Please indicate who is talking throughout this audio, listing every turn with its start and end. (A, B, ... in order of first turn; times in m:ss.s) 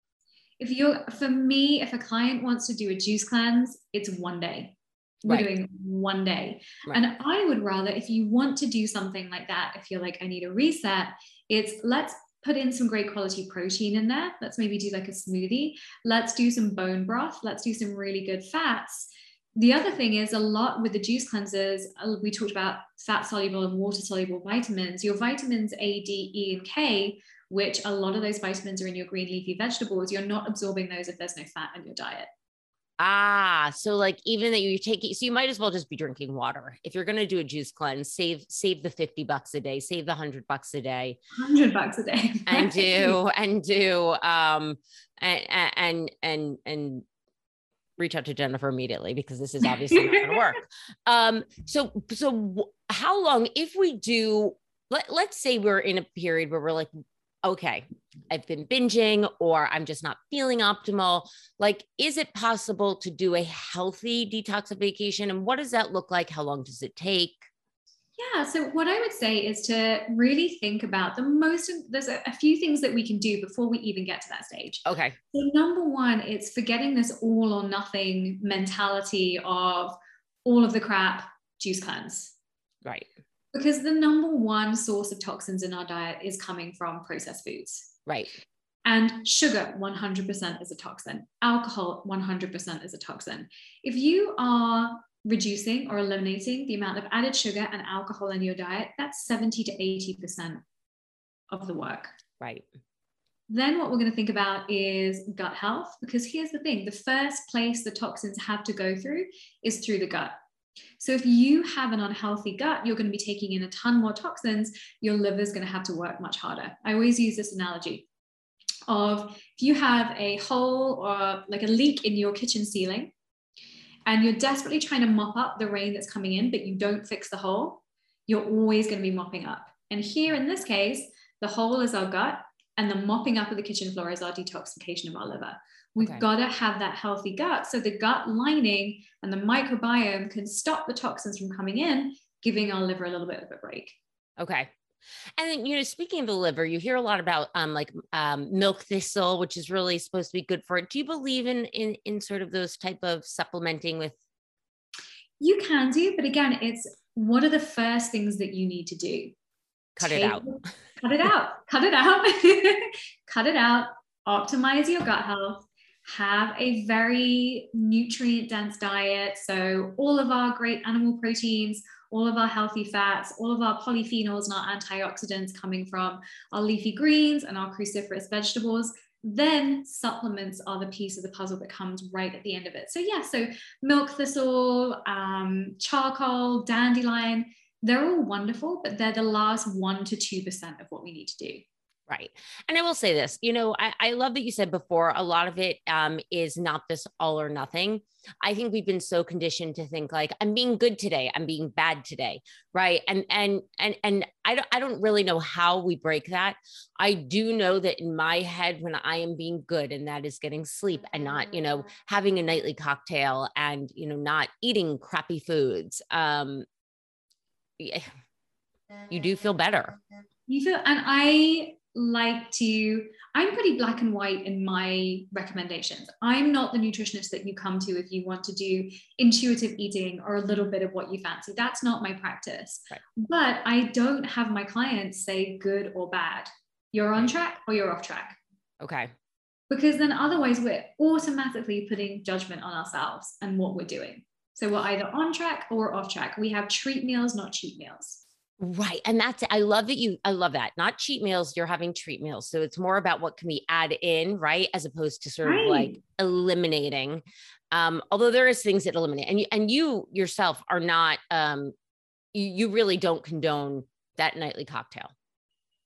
0:00.6-0:32.3 A
0:33.0-0:41.2 B
0:41.4-0:43.2 A
0:42.5-0:47.0 B
0:48.0-0:56.9 B
0:49.9-0:50.5 A
0:57.4-1:07.4 B
1:08.2-1:22.3 A
1:14.8-1:15.2 B
1:23.5-1:27.9 A
1:28.1-1:28.3 B
1:28.8-1:40.6 A
1:41.5-1:42.1 A
1:42.4-1:42.6 B
1:43.5-1:50.3 A
1:51.0-1:58.0 A
1:58.9-2:03.1 A
2:04.1-2:24.0 A
2:16.0-2:16.2 B
2:24.4-2:24.7 B
2:25.4-2:34.2 B
2:35.4-2:39.3 A
2:40.0-2:40.5 B
2:40.0-3:11.6 A
3:12.1-3:36.6 B
3:37.8-3:38.1 B
3:39.1-3:40.0 B
3:40.5-3:58.4 A
3:58.8-3:59.1 B
3:59.7-4:08.2 A
4:08.6-4:21.7 B
4:15.4-4:16.0 A
4:22.3-4:25.1 B